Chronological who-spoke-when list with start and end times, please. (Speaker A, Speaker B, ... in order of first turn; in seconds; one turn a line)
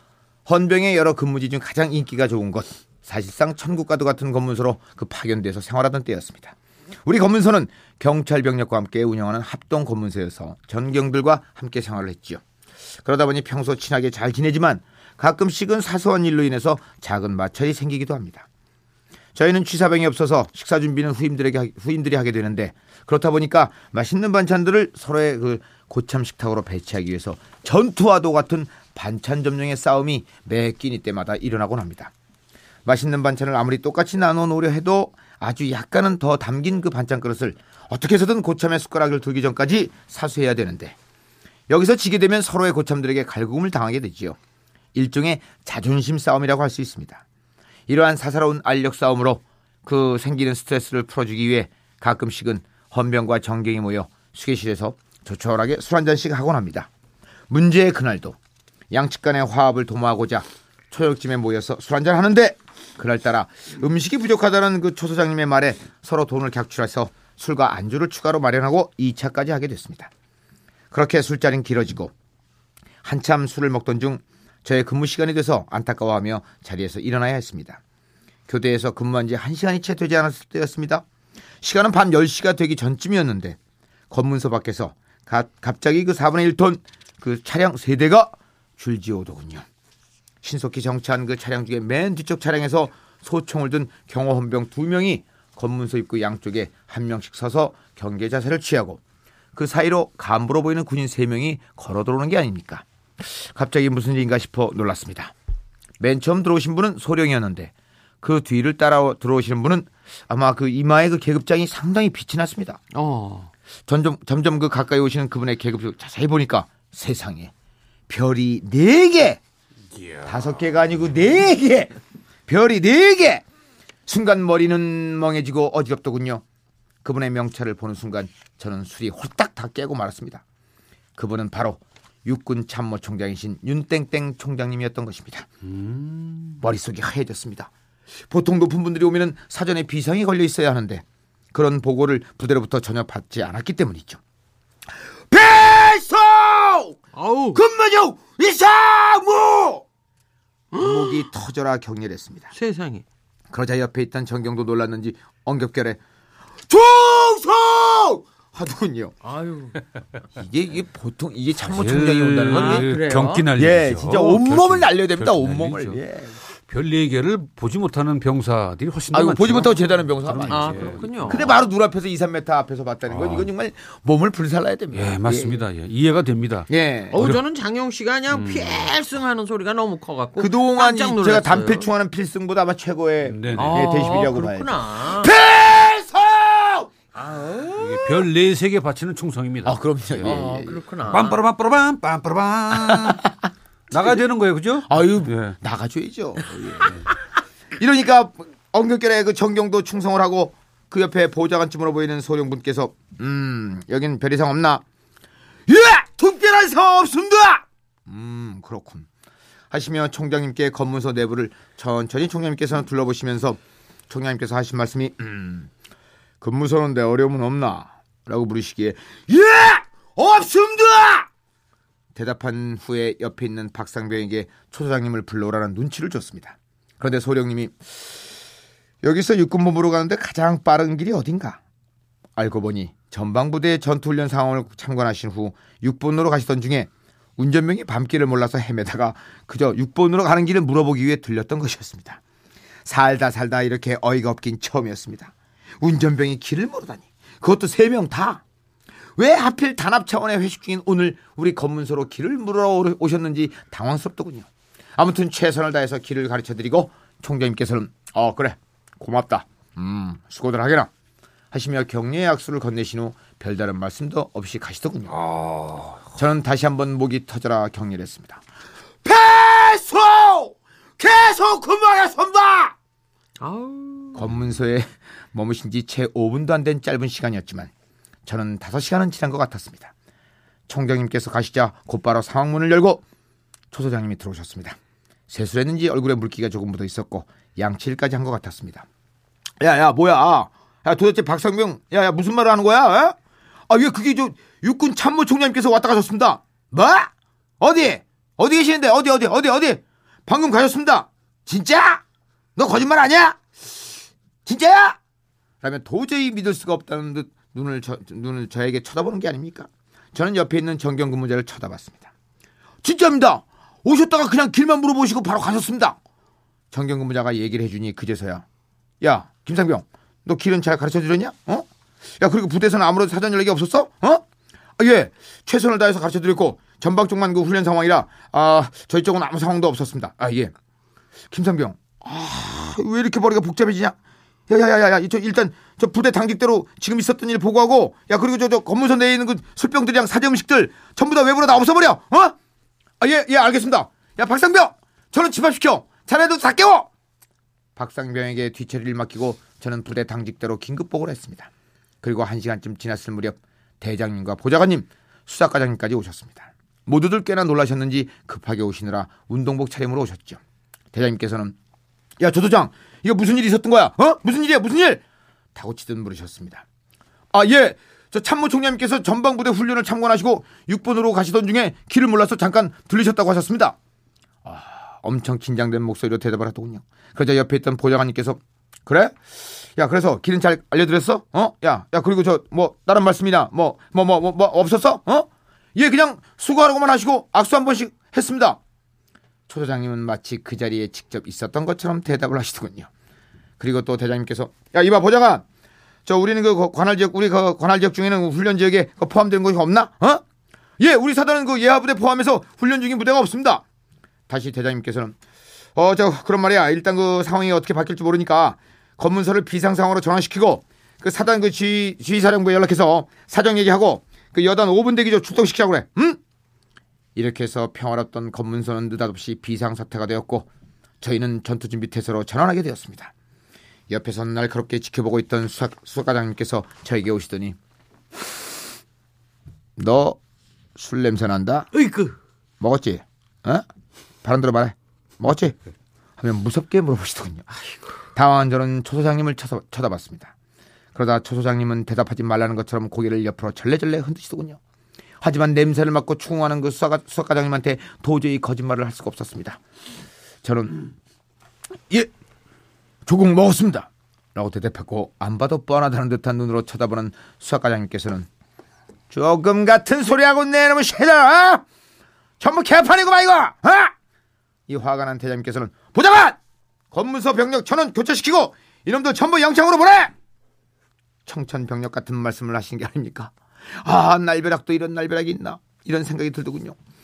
Speaker A: 0.5-12.4
Speaker A: 13.1-18.5
Speaker A: 19.4-32.1
Speaker A: 32.9-41.0
Speaker A: 41.7-44.4
Speaker A: 44.9-47.2
Speaker A: 47.9-56.9
Speaker A: 57.5-58.4
Speaker A: 58.9-70.1
Speaker A: 70.9-72.1
Speaker A: 73.0-77.8
Speaker A: 78.5-81.0
Speaker A: 81.6-83.6
Speaker A: 84.1-89.7
Speaker A: 90.4-99.0
Speaker A: 99.5-105.3
Speaker A: 106.0-112.8
Speaker B: 112.9-113.5
Speaker A: 113.9-117.5
Speaker A: 118.1-119.4
Speaker C: 120.0-120.3
Speaker A: 120.2-121.9
Speaker A: 122.5-123.4
Speaker A: 124.1-126.4
Speaker A: 127.0-130.4
Speaker A: 131.2-135.5
Speaker C: 135.7-136.6
Speaker A: 136.6-137.7
Speaker A: 138.3-144.2
Speaker A: 145.3-147.0
Speaker B: 147.1-147.6
Speaker A: 147.5-149.8
Speaker B: 150.7-151.3
Speaker A: 150.7-152.5
Speaker B: 152.5-153.1
Speaker A: 153.5-156.0
Speaker A: 156.7-159.1
Speaker B: 159.2-159.8
Speaker A: 160.4-162.9
Speaker C: 161.6-166.0
Speaker B: 162.5-163.5
Speaker A: 163.6-166.4
Speaker C: 166.7-171.5
Speaker A: 169.1-175.6
Speaker B: 170.5-171.5
Speaker C: 173.1-173.5
Speaker C: 174.9-177.4
Speaker A: 176.7-177.2
Speaker B: 177.1-181.9
Speaker C: 178.3-178.9
Speaker A: 180.4-186.9
Speaker C: 183.2-184.0
Speaker B: 183.5-185.3
Speaker B: 187.1-188.3
Speaker C: 187.8-190.4
Speaker A: 189.7-190.8
Speaker B: 190.2-191.4
Speaker C: 191.1-193.3
Speaker A: 192.8-193.3
Speaker C: 193.9-195.6
Speaker A: 194.9-197.0
Speaker A: 197.8-204.8
Speaker A: 205.7-209.1
Speaker A: 209.7-215.7
Speaker A: 216.4-221.3
Speaker A: 222.2-228.0
Speaker A: 229.0-231.6
Speaker A: 232.4-242.2
Speaker A: 242.8-248.4
Speaker A: 249.2-260.9
Speaker A: 261.5-265.2
Speaker C: 265.1-266.1
Speaker A: 266.1-268.4
Speaker A: 269.0-272.8
Speaker B: 273.4-274.2
Speaker A: 274.1-277.7
Speaker A: 278.3-279.9
Speaker A: 280.7-283.0
Speaker A: 283.7-284.8
Speaker A: 285.3-288.9
Speaker A: 289.6-293.2
Speaker A: 293.7-302.0
Speaker A: 302.6-303.9
Speaker A: 304.4-305.0
Speaker A: 305.6-312.1
Speaker A: 312.8-316.0
Speaker A: 316.7-318.4
Speaker A: 319.0-321.7
Speaker A: 322.2-324.2
Speaker A: 324.8-330.5
Speaker A: 331.3-334.0
Speaker A: 334.5-342.4
Speaker A: 343.0-346.9
Speaker A: 347.8-351.5
Speaker A: 352.0-360.4
Speaker A: 360.9-361.6
Speaker A: 362.2-365.0
Speaker A: 365.6-366.6
Speaker A: 367.3-373.8
Speaker A: 374.4-388.6
Speaker A: 389.5-392.9
Speaker A: 393.6-395.4
Speaker A: 396.1-400.2
Speaker A: 400.8-403.6
Speaker A: 404.3-405.1
Speaker A: 405.8-416.2
Speaker A: 417.1-420.5
Speaker A: 421.0-423.1
Speaker A: 423.9-427.6
Speaker A: 429.8-430.2
Speaker A: 430.8-431.7
Speaker B: 431.7-432.2
Speaker A: 432.6-433.6
Speaker A: 434.2-435.6
Speaker A: 436.2-437.5
Speaker A: 438.1-440.3
Speaker A: 440.9-444.6
Speaker A: 445.2-449.6
Speaker A: 450.4-450.9
Speaker A: 453.1-458.3
Speaker A: 459.1-461.6
Speaker A: 462.4-463.9
Speaker A: 464.7-466.4
Speaker A: 466.9-470.1
Speaker A: 471.3-476.8